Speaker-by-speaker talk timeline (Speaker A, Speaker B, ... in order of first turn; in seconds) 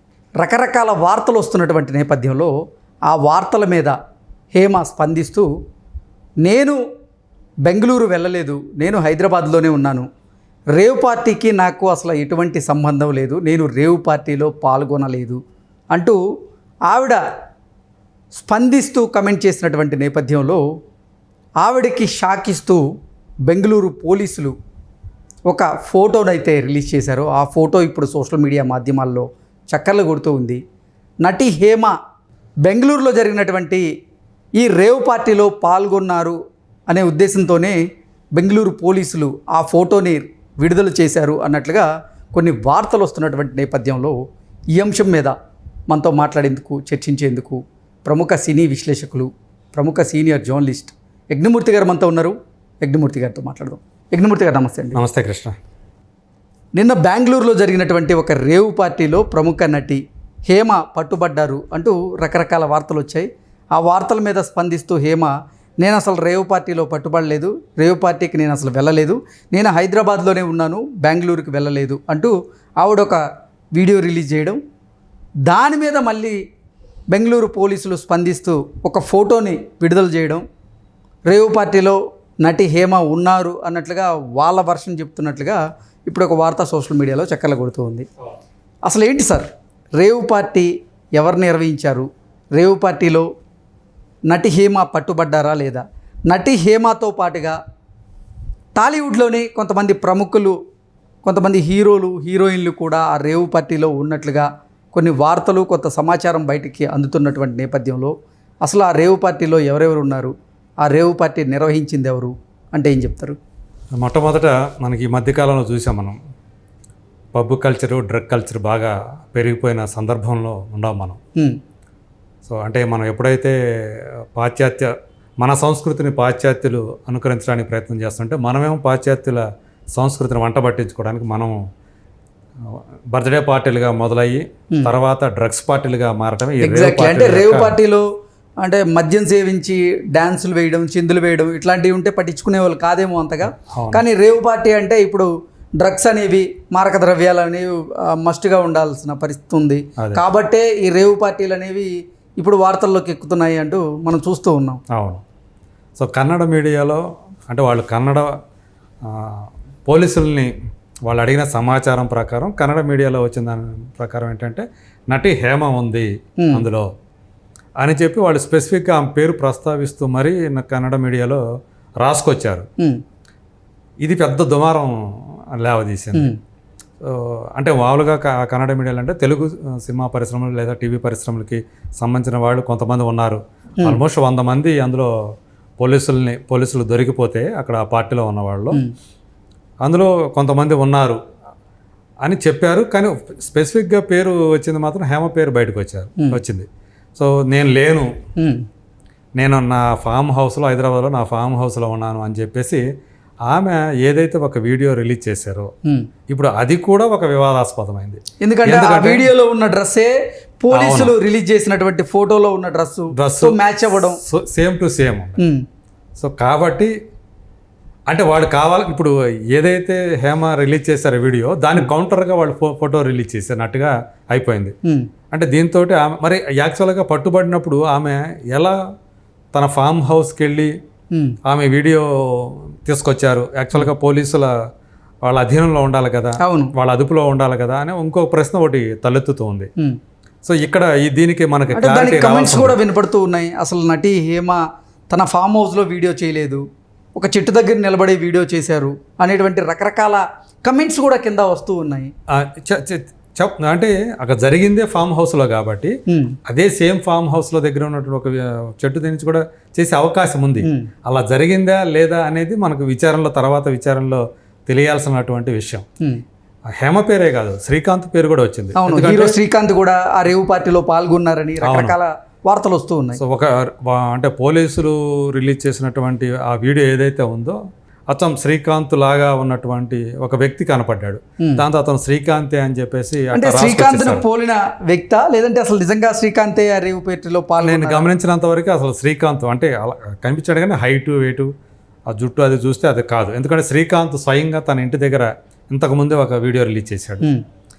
Speaker A: 0.4-2.5, 3.1-4.0, 4.5-5.5, 6.4-6.8, 7.6-10.1, 10.8-15.4, 15.9-16.2, 16.9-17.2, 18.3-20.6, 21.6-22.8, 23.5-24.5, 25.5-30.6, 31.2-31.9, 32.6-33.8, 34.6-36.4, 36.9-37.8, 38.4-44.1, 44.7-45.3, 45.9-55.0, 56.8-73.2, 73.7-74.6, 75.5-76.4, 77.1-80.4, 81.3-88.1, 88.8-93.3, 94.3-97.6, 98.8-100.5, 101.2-108.1, 108.6-110.3, 110.8-113.4, 136.6-138.1, 138.6-145.3, 145.8-154.8, 198.4-198.6, 208.4-214.2, 236.4-236.7, 241.7-244.6, 245.1-246.6, 247.2-252.1, 256.1-256.4, 260.6-260.9, 268.8-273.2, 283.3-288.1
Speaker B: 54.9-55.5, 113.9-116.2, 117.3-121.2, 122.5-129.4, 129.9-131.5, 132.6-137.8, 143.7-144.0, 154.9-155.2, 156.0-158.3, 159.0-160.5, 161.1-166.9, 167.8-171.4, 172.0-172.7, 174.0-174.9, 175.5-176.3, 177.0-185.1, 185.8-188.8, 189.8-191.2, 192.2-198.1, 199.4-202.8, 203.5-205.7, 206.3-209.3, 210.7-211.1, 213.2-215.4, 216.2-216.9, 218.1-224.7, 225.3-228.8, 229.5-230.7, 231.4-234.5, 235.2-239.7, 240.4-242.8, 252.3-255.9, 256.5-265.8, 266.8-269.4, 271.6-271.9, 273.2-277.6, 278.1-284.2, 287.6-291.5, 292.1-297.3